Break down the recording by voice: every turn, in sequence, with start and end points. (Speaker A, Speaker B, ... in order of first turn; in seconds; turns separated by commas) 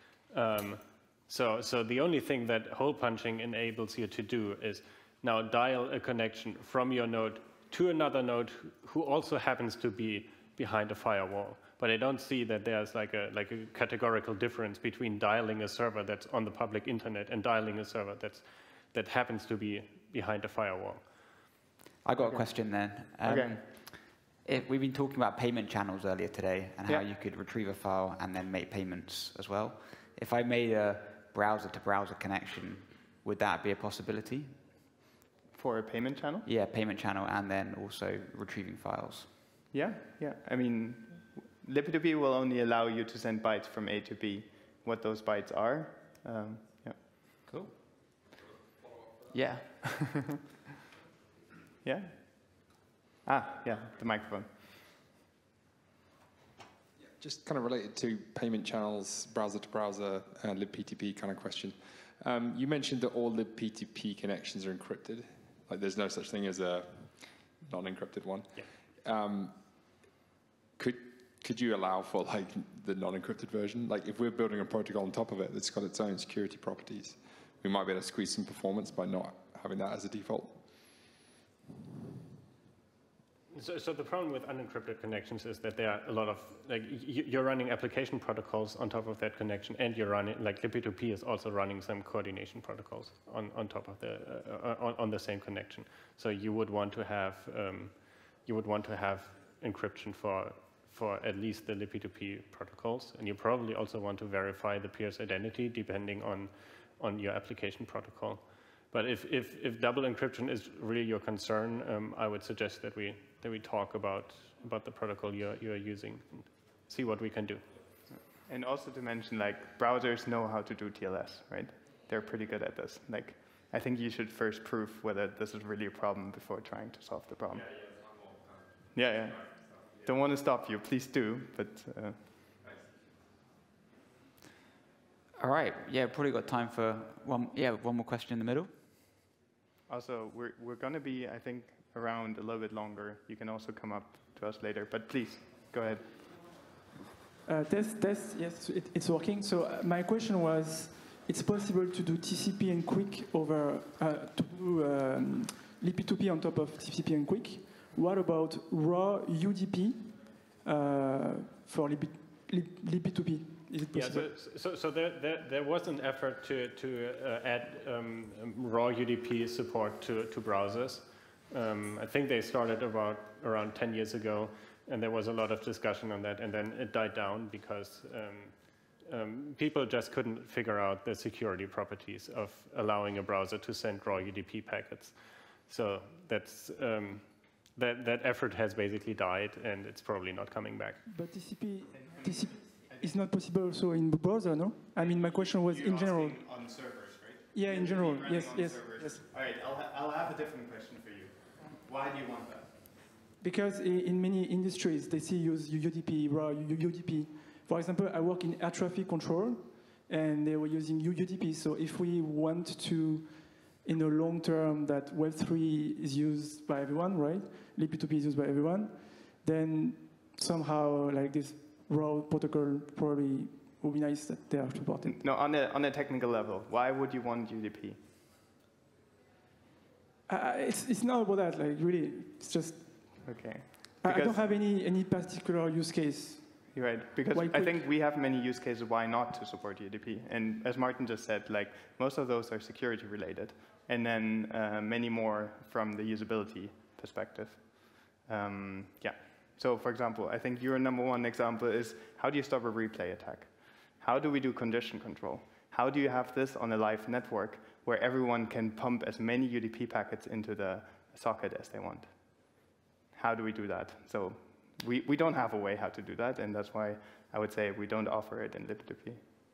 Speaker A: 0.3-21.1, Speaker B: 22.0-34.6, Speaker C: 22.2-22.5, Speaker C: 23.2-23.6, Speaker C: 35.5-36.5, Speaker B: 36.5-39.3, Speaker C: 39.7-47.2, Speaker B: 47.5-47.8, Speaker B: 49.3-50.1, Speaker C: 51.8-54.5, Speaker D: 57.2-69.9, Speaker D: 70.8-80.6, Speaker A: 83.5-117.7, Speaker C: 118.4-127.7, Speaker C: 128.9-132.3, Speaker B: 135.4-138.7, Speaker C: 139.9-146.4, Speaker E: 147.5-164.3, Speaker A: 163.9-191.0, Speaker E: 191.1-196.4, Speaker C: 191.9-193.3, Speaker C: 195.0-202.9, Speaker E: 197.5-199.2, Speaker E: 203.4-225.2, Speaker C: 225.1-228.0, Speaker E: 230.3-233.4, Speaker C: 233.2-234.4, Speaker E: 234.0-236.8, Speaker C: 236.7-269.2, Speaker E: 237.3-237.8